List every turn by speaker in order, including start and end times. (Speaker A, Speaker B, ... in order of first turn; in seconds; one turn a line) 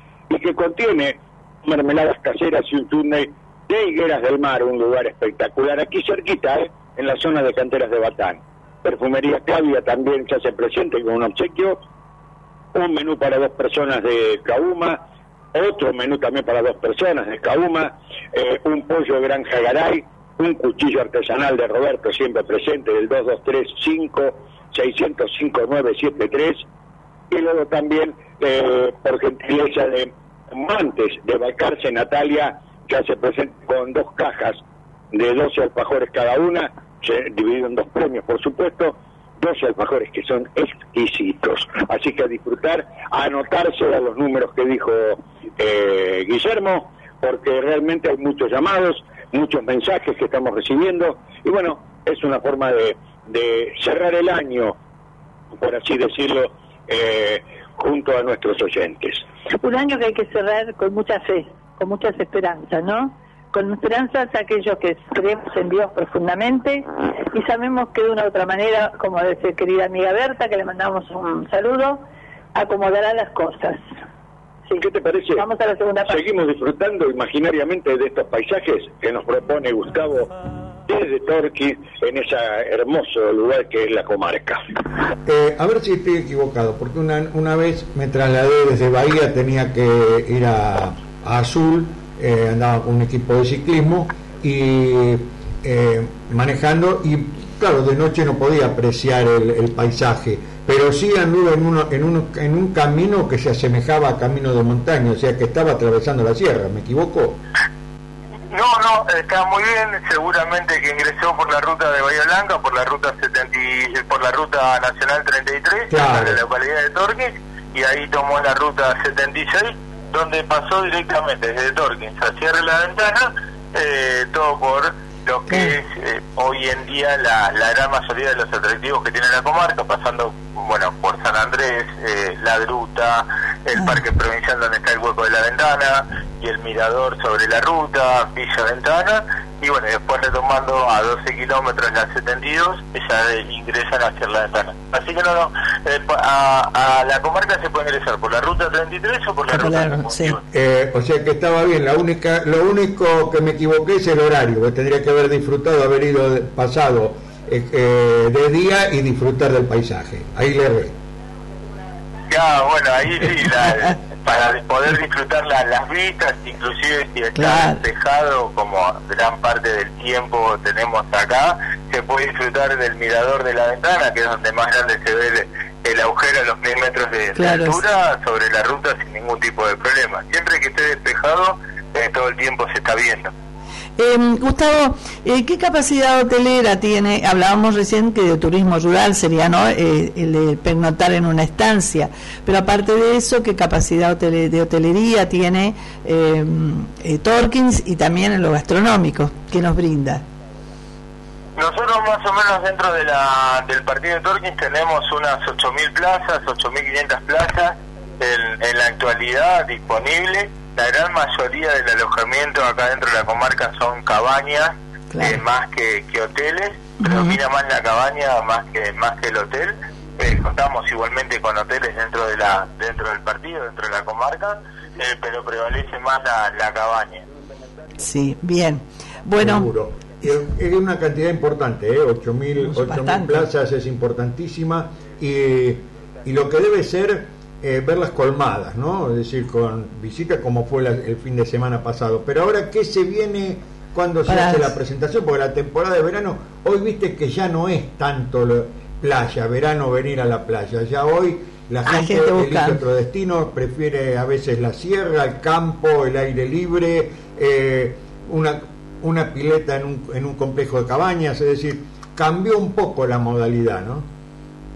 Speaker A: 0.3-11.8
Speaker A: 12.7-15.0
Speaker A: 15.5-26.7
Speaker A: 27.3-34.6
Speaker A: 35.1-54.8
Speaker A: 55.5-59.2
Speaker B: 59.6-72.0
Speaker B: 72.5-73.8
Speaker A: 74.8-75.5
Speaker B: 75.4-76.2
Speaker A: 76.1-80.3
Speaker A: 80.9-84.6
Speaker C: 85.2-107.4
Speaker D: 108.5-150.4
Speaker C: 115.9-116.4
Speaker E: 149.6-150.4
Speaker C: 150.5-161.0
Speaker D: 162.3-183.3
Speaker E: 167.4-167.8
Speaker E: 177.4-177.8
Speaker E: 184.0-200.2
Speaker D: 201.6-227.3
Speaker E: 215.1-215.4
Speaker E: 217.0-217.4
Speaker E: 228.0-229.7
Speaker C: 229.4-264.1
Speaker E: 232.6-233.5
Speaker E: 244.3-244.7
Speaker E: 251.8-252.8